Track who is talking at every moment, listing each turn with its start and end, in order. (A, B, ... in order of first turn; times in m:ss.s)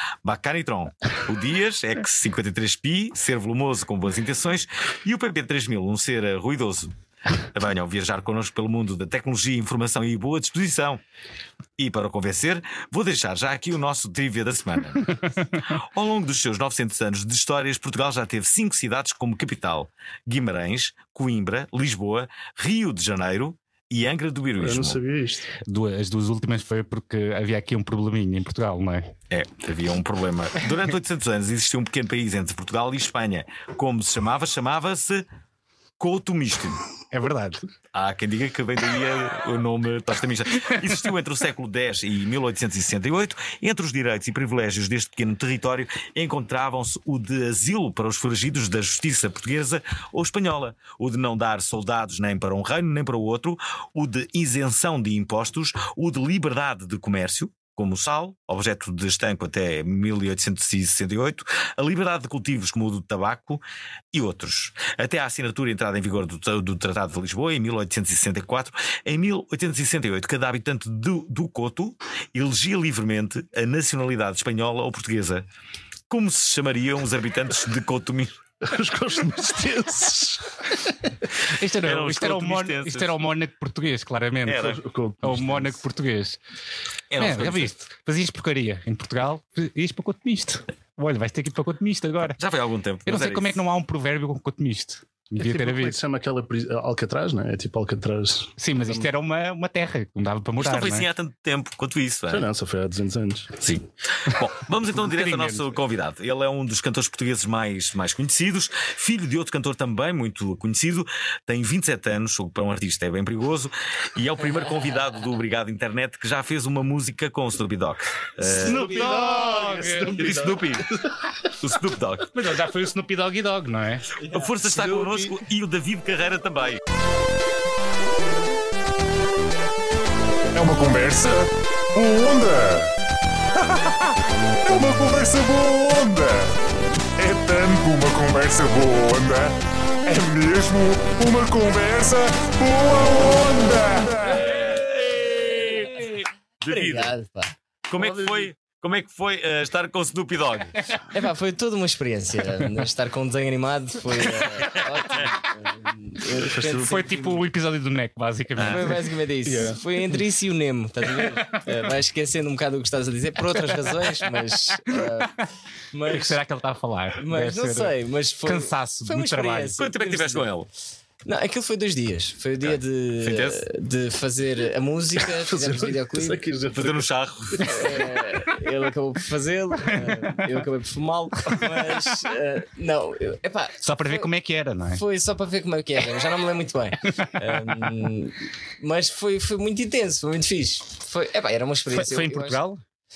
0:00.2-0:06.9 A
0:07.5-0:11.0 A
0:11.8-0:25.0 A
0:24.6-0:25.5 B
0:25.6-0:29.1 C
0:29.3-0:35.2 A
0:36.0-0:36.8 A
0:37.1-0:37.6 C
0:37.9-1:15.4 A
1:16.1-1:18.3 A
1:18.6-1:20.9 B
1:21.5-1:26.4 C
1:21.8-1:23.2 A
1:24.5-1:24.8 A
1:24.6-1:25.8 B
1:27.1-1:27.7 A
1:27.2-1:32.4 C
1:32.4-1:33.6 A
1:33.1-1:36.0 C
1:35.4-1:39.1 B
1:38.6-1:41.1 C
1:40.6-1:42.5 A
1:42.3-1:43.6 B
1:43.6-1:59.3 A
1:45.0-1:45.7 C
1:58.5-2:01.1 B
1:58.5-2:00.2 C
1:59.9-2:00.9 A
2:01.5-2:02.4 A
2:02.3-2:04.1 C
2:04.3-2:06.8 A
2:04.7-2:05.4 B
2:10.5-2:12.9 D
2:13.6-2:14.1 D
2:14.6-2:16.6 D
2:17.2-2:19.6 D
2:20.1-2:24.6 D
2:24.3-2:27.1 A
2:26.7-2:27.6 E
2:27.9-2:30.8 A
2:28.0-2:28.5 B
2:31.1-2:37.2 E
2:36.3-2:37.4 B
2:36.8-2:39.0 C
2:38.6-2:45.4 E
2:39.4-2:39.8 B
2:45.9-2:46.4 E
2:46.1-2:49.7 C
2:47.2-2:50.5 E
2:49.8-2:50.7 A
2:51.2-2:56.4 E
2:53.2-2:53.6 A
2:55.3-2:58.2 B
2:56.7-2:57.9 A
2:57.7-3:04.3 E
3:03.8-3:05.0 C
3:04.9-3:12.6 E
3:11.9-3:12.8 C